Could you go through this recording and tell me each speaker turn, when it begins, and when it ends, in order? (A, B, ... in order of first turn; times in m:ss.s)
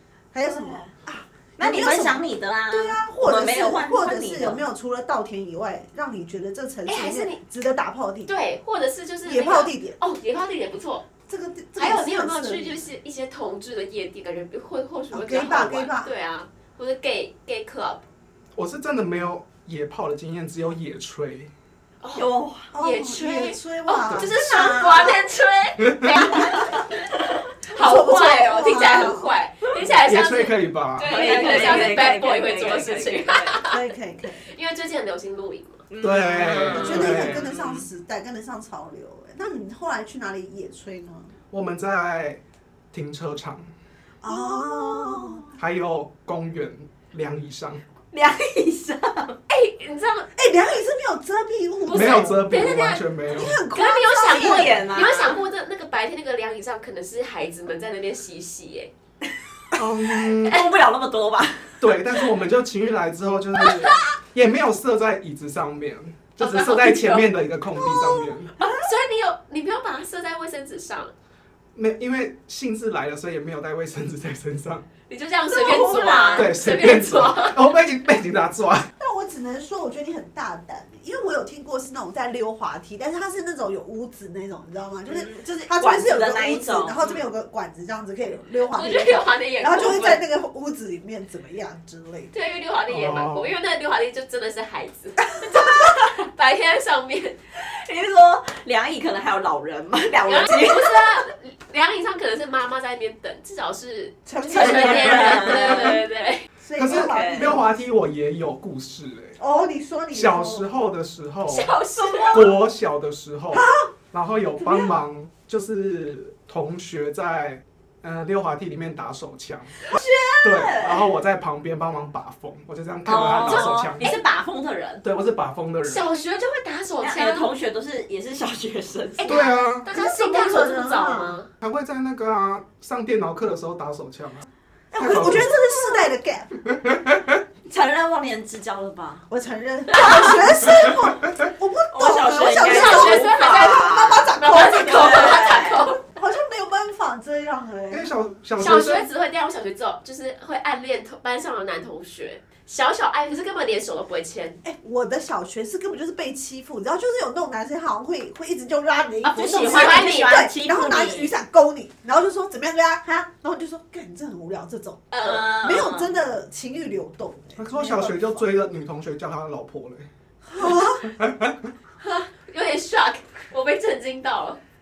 0:00.3-0:08.3 A
0:00.5-0:00.9 B
0:01.6-0:04.6 B
0:06.8-0:07.4 C
0:08.3-0:11.0 C
0:09.2-0:10.0 A
0:11.3-0:12.8 A
0:11.8-0:18.0 C
0:15.1-0:16.1 A
0:18.5-0:21.5 D
0:22.0-0:26.9 C
0:22.1-0:22.7 B
0:22.7-0:25.0 A
0:24.0-0:24.4 D
0:24.4-0:25.2 B
0:25.8-0:26.3 D
0:26.4-0:26.9 B
0:27.6-0:33.8 C
0:27.7-0:29.3 A
0:29.8-0:31.8 D
0:31.0-0:33.6 B
0:33.6-0:34.5 A
0:34.4-0:35.8 C
0:35.9-0:37.8 B
0:36.0-0:37.5 D
0:36.7-0:41.3 A
0:41.5-0:43.7 D
0:44.2-0:45.6 A
0:44.3-0:45.5 B
0:45.5-0:47.8 D
0:48.1-0:49.4 B
0:49.5-0:50.3 C
0:50.3-0:52.4 A
0:51.8-0:58.9 C
0:51.9-0:53.6 D
0:53.3-0:54.9 A
0:54.2-0:55.4 B
0:59.7-1:00.6 D
1:00.2-1:02.2 B
1:01.8-1:08.5 D
1:06.4-1:07.3 C
1:08.6-1:08.8 A
1:08.6-1:11.1 C
1:11.7-1:14.9 D
1:15.1-1:17.6 C
1:15.5-1:16.6 B
1:16.3-1:18.9 D
1:19.0-1:32.3 A
1:25.1-1:27.2 B
1:28.7-1:30.2 C
1:32.3-1:37.4 C
1:32.9-1:33.5 D
1:37.6-1:41.3 B
1:40.2-1:46.5 C
1:44.2-1:46.0 A
1:44.4-1:46.0 B
1:46.6-1:47.8 A
1:46.8-1:49.4 D
1:46.8-1:47.6 B
1:49.4-1:50.7 A
1:50.1-1:51.7 D
1:51.5-1:52.5 C
1:52.0-1:52.5 B
1:52.3-2:04.1 D
1:53.5-1:53.9 A
1:54.6-1:54.9 A
1:59.9-2:01.1 B
2:03.0-2:05.0 B
2:03.5-2:04.2 C
2:05.0-2:06.0 D
2:05.8-2:07.5 C
2:07.0-2:09.5 B
2:09.2-2:11.5 C
2:09.3-2:09.9 D
2:09.9-2:11.4 A
2:11.6-2:15.5 D
2:14.9-2:16.8 A
2:16.8-2:17.4 D
2:17.7-2:19.3 B
2:19.3-2:28.1 A
2:19.9-2:20.4 B
2:21.9-2:25.8 B
2:22.6-2:26.0 C
2:27.9-2:29.1 D
2:28.6-2:34.6 C
2:34.6-2:48.4 A
2:39.2-2:41.3 B
2:39.6-2:40.4 C
2:45.1-2:45.7 C
2:45.2-2:46.1 B
2:47.6-2:51.7 D
2:50.4-2:51.1 A
2:52.0-2:54.6 C